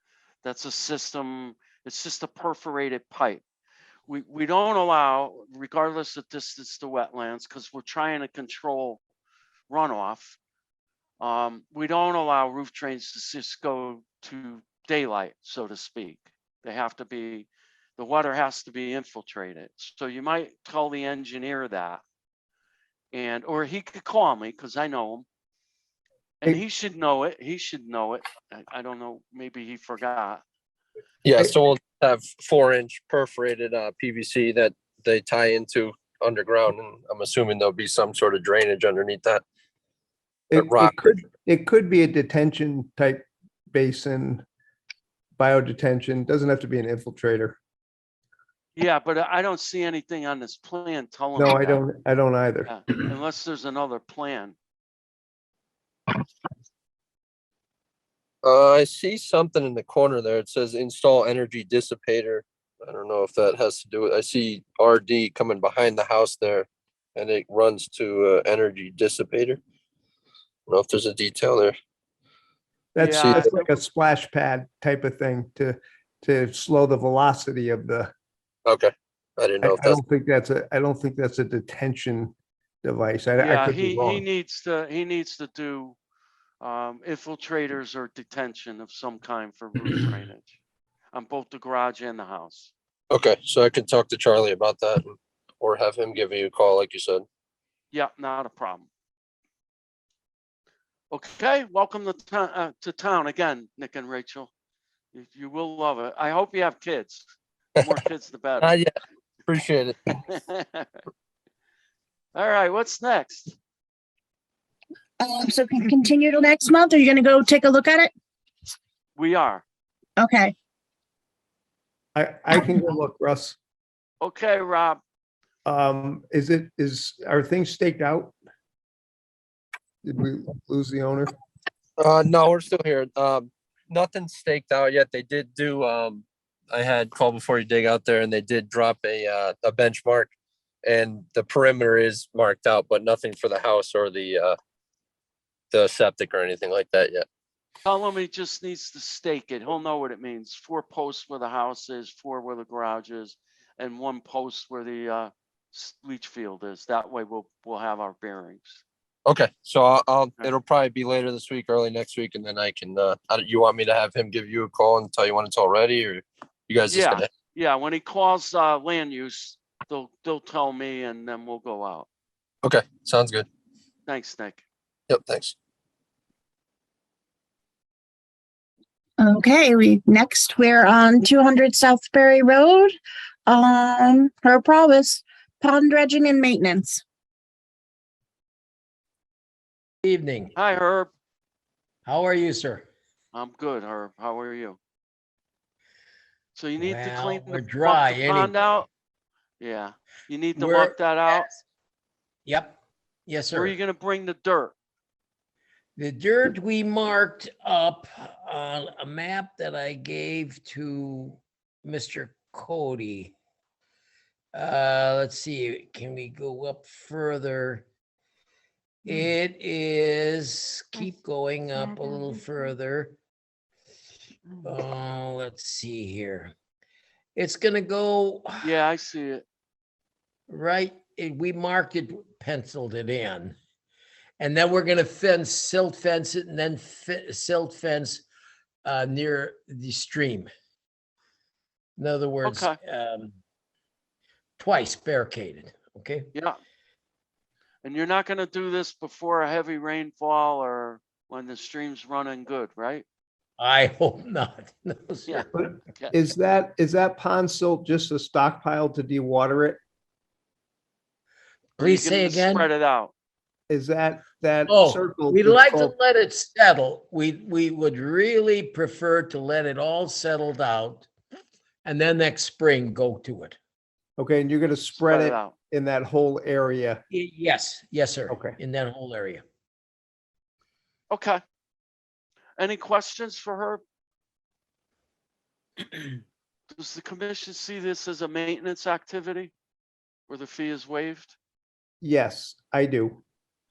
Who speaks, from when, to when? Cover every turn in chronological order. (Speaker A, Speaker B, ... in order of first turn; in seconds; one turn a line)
Speaker A: 0.4-3.4
Speaker A: 4.1-9.0
Speaker A: 9.7-10.4
Speaker A: 11.2-22.0
Speaker A: 23.1-25.3
Speaker A: 26.4-30.4
Speaker B: 31.2-39.4
Speaker C: 40.5-44.5
Speaker B: 40.5-41.1
Speaker C: 45.4-47.6
Speaker A: 48.8-51.8
Speaker C: 51.4-52.7
Speaker A: 52.7-54.6
Speaker B: 58.4-69.6
Speaker B: 70.7-71.8
Speaker C: 73.0-78.1
Speaker A: 73.0-73.7
Speaker B: 78.7-80.0
Speaker C: 79.6-84.2
Speaker A: 83.4-86.0
Speaker A: 86.6-90.6
Speaker A: 91.1-92.7
Speaker B: 93.1-97.2
Speaker A: 97.9-98.9
Speaker A: 101.1-104.5
Speaker A: 105.1-108.7
Speaker B: 108.6-108.9
Speaker B: 109.5-110.0
Speaker A: 110.3-111.0
Speaker A: 112.3-113.6
Speaker D: 115.2-118.1
Speaker A: 119.2-119.6
Speaker D: 120.2-120.5
Speaker C: 122.2-123.6
Speaker D: 122.5-122.9
Speaker A: 124.2-125.0
Speaker C: 125.7-128.3
Speaker C: 130.1-131.3
Speaker B: 132.0-140.3
Speaker B: 140.8-144.6
Speaker B: 145.7-147.2
Speaker A: 147.8-158.8
Speaker B: 159.3-167.3
Speaker A: 166.9-172.1
Speaker B: 172.6-173.5
Speaker A: 174.1-174.7
Speaker B: 175.1-175.6
Speaker D: 179.2-182.9
Speaker D: 183.5-187.0
Speaker E: 190.0-190.6
Speaker A: 190.6-191.1
Speaker E: 192.1-192.9
Speaker A: 193.3-194.8
Speaker A: 196.6-198.9
Speaker E: 196.8-198.8
Speaker A: 199.6-201.5
Speaker E: 200.6-201.6
Speaker E: 202.4-203.8
Speaker A: 203.5-204.7
Speaker E: 206.0-213.3
Speaker E: 214.5-217.8
Speaker E: 219.1-223.2
Speaker E: 224.6-226.5
Speaker E: 227.3-228.8
Speaker A: 228.6-229.4
Speaker E: 230.5-233.6
Speaker E: 234.4-238.2
Speaker E: 238.8-240.5
Speaker E: 242.0-243.4
Speaker A: 242.4-242.8
Speaker E: 244.6-246.3
Speaker A: 247.8-253.1
Speaker E: 253.6-255.5
Speaker A: 255.3-256.2
Speaker C: 255.5-259.8
Speaker E: 261.8-262.7
Speaker A: 261.8-263.1
Speaker C: 263.7-265.9
Speaker E: 264.7-271.1
Speaker E: 271.8-273.6
Speaker C: 274.2-277.0
Speaker A: 274.9-275.5
Speaker E: 277.1-279.4
Speaker C: 278.3-278.6
Speaker A: 281.1-281.4
Speaker A: 282.6-283.8
Speaker A: 286.7-289.5
Speaker A: 290.3-291.4
Speaker C: 292.0-293.2